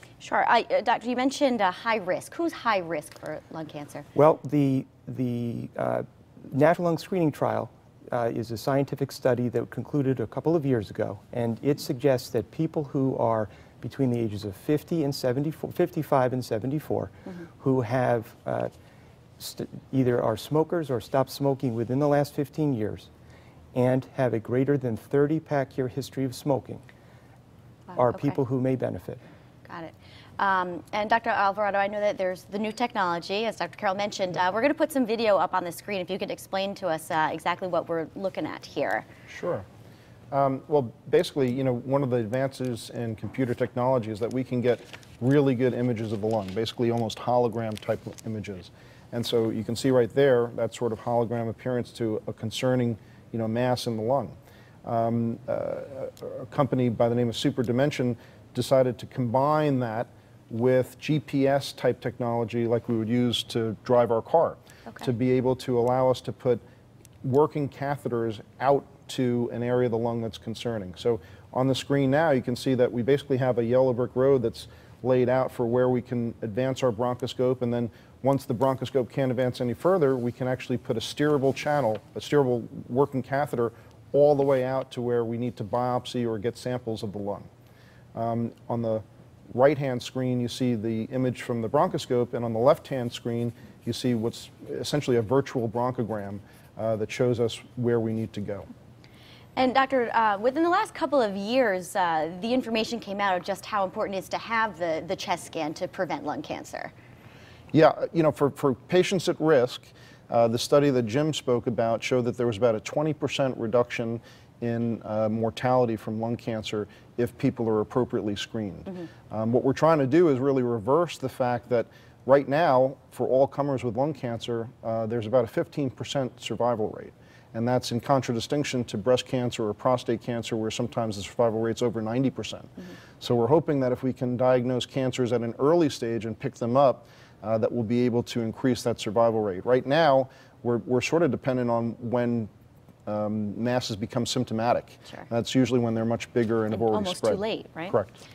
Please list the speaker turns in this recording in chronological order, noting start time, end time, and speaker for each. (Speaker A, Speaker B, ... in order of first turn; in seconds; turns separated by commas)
Speaker A: 0.2-4.1, Speaker B: 4.2-18.7, Speaker B: 19.4-23.1, Speaker B: 23.8-26.8, Speaker A: 27.9-28.4, Speaker B: 28.0-29.2, Speaker A: 29.7-39.1, Speaker C: 39.3-39.7, Speaker C: 40.3-66.6, Speaker C: 67.2-87.5, Speaker C: 88.1-98.7, Speaker A: 99.6-106.9, Speaker C: 107.7-142.5, Speaker C: 143.1-148.2, Speaker A: 146.7-148.0